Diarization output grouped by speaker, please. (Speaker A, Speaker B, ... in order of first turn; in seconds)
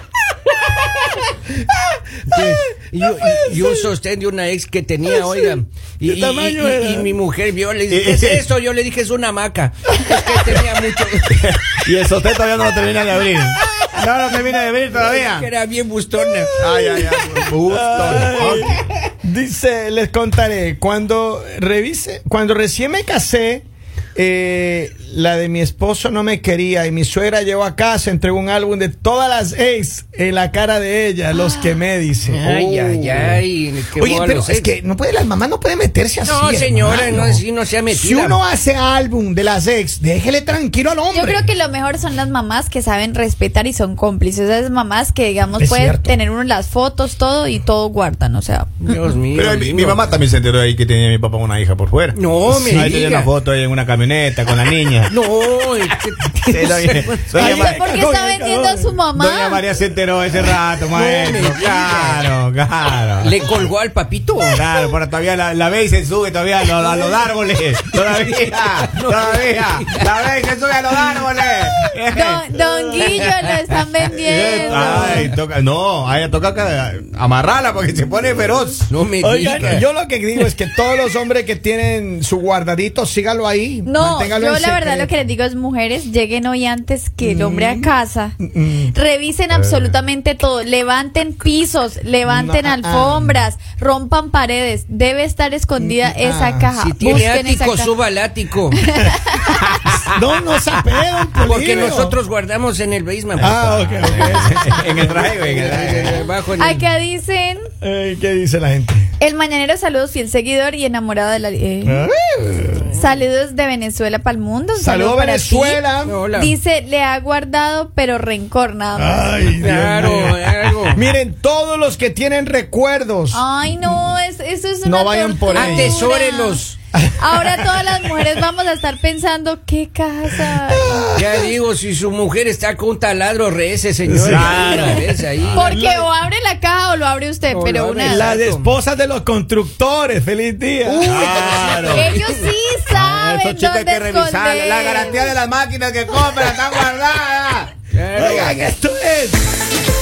Speaker A: 2.2-11.4, 14.9-16.5, 32.3-34.7, 36.2-38.4, 48.8-50.1, 52.1-53.3, 55.1-57.3, 60.9-62.3, 63.2-64.6, 68.8-70.0, 78.9-79.8, 96.8-98.8, 101.4-106.8, 116.0-116.5, 119.5-121.0, 125.5-126.8, 131.1-135.6, 137.5-138.7, 140.8-142.4, 147.9-148.6
Speaker B: 6.0-7.1, 16.6-17.1, 17.7-32.6, 34.0-41.5, 45.6-46.2, 57.3-58.9, 74.8-75.2, 79.2-85.2, 87.2-88.9, 92.2-93.4, 95.8-96.7, 100.0-102.2, 103.4-105.1, 107.8-109.1, 111.8-112.9, 114.8-116.2, 118.9-124.1, 124.8-126.0, 127.0-128.3, 130.7-131.5, 134.1-136.1, 138.0-141.2, 148.1-149.4
Speaker C: 7.9-8.4, 11.3-15.5, 16.6-18.8, 32.5-33.4, 49.3-55.1, 56.4-57.8, 59.1-63.3, 64.5-73.3, 74.1-78.9, 79.4-79.8, 104.0-106.2, 134.2-135.7, 141.0-142.1, 142.9-148.5
Speaker D: 31.3-31.8, 41.1-49.0, 57.4-59.6, 72.1-75.3, 83.8-88.3, 88.9-97.9, 98.7-99.6, 106.6-107.7, 109.2-112.1, 112.9-119.3, 123.3-126.6, 127.2-131.0, 135.5-138.3, 141.9-145.4